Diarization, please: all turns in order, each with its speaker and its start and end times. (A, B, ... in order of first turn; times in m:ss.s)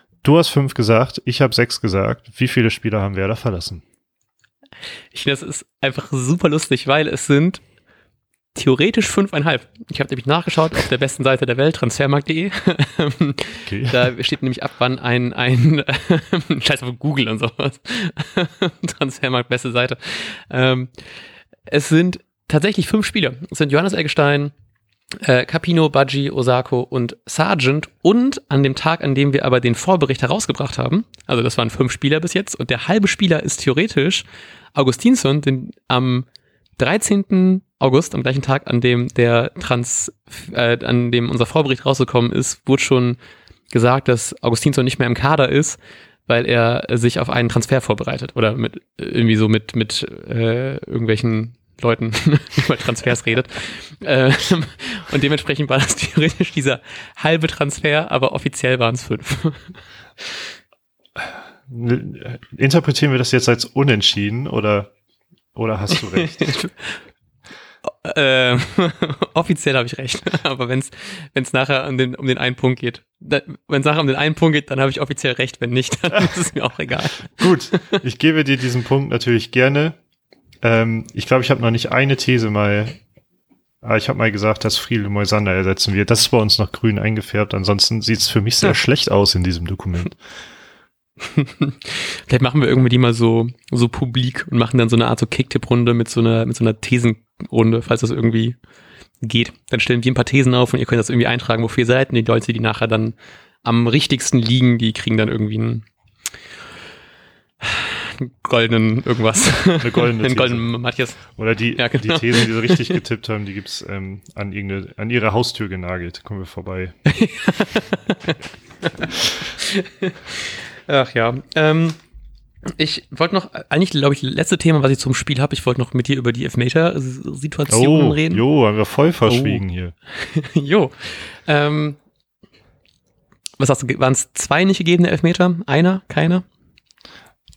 0:00.2-0:03.8 A
0:05.1-0:07.6 B
0:08.5-0:21.0 B
0:13.7-0:14.0 A
0:21.7-0:24.5 B
0:25.2-0:36.2 B
0:36.8-0:43.2 B
0:43.7-0:59.8 B
1:01.2-1:04.9 A
1:05.5-1:06.5 A
1:05.9-1:06.9 B
1:07.9-1:18.0 B
1:17.3-1:20.0 A
1:20.6-1:23.0 A
1:23.8-1:30.2 A
1:31.2-1:38.6 B
1:39.2-1:45.8 B
1:47.6-1:51.2 B
1:49.8-1:50.7 A
1:51.3-1:56.9 A
1:51.8-1:53.0 B
1:57.0-1:58.3 B
1:58.9-2:02.0 B
2:02.6-2:08.4 B
2:07.7-2:09.9 A
2:09.2-2:09.6 B
2:10.1-2:12.0 B
2:13.6-2:16.4 B